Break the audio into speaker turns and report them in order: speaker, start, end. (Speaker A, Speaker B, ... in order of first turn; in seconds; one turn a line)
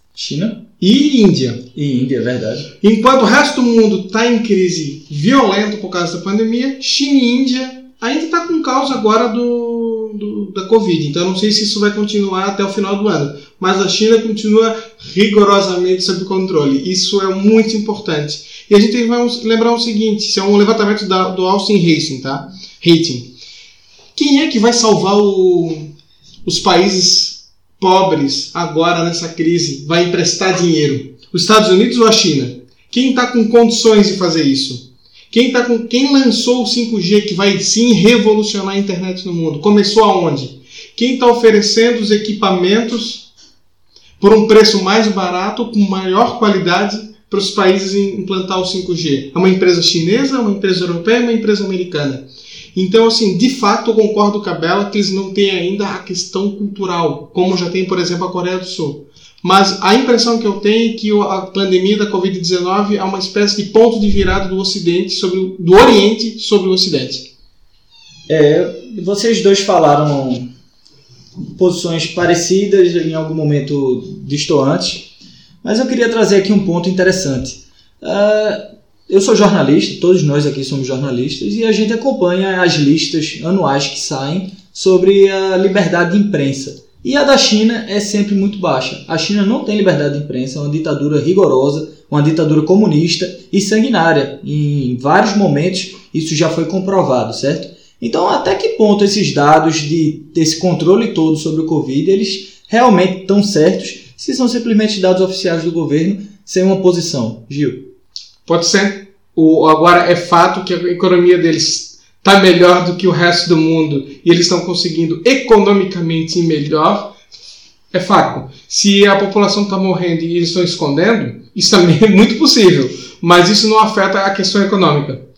Speaker A: 0.1-0.6
Speaker B: 0.8-1.6
Speaker A: 1.7-2.7
Speaker B: 2.8-23.3
Speaker B: 24.1-25.9
Speaker B: 26.4-43.3
Speaker B: 44.2-67.3
Speaker A: 68.3-70.5
Speaker A: 71.5-75.1
Speaker A: 75.6-107.9
Speaker B: 108.5-117.1
Speaker B: 117.9-125.2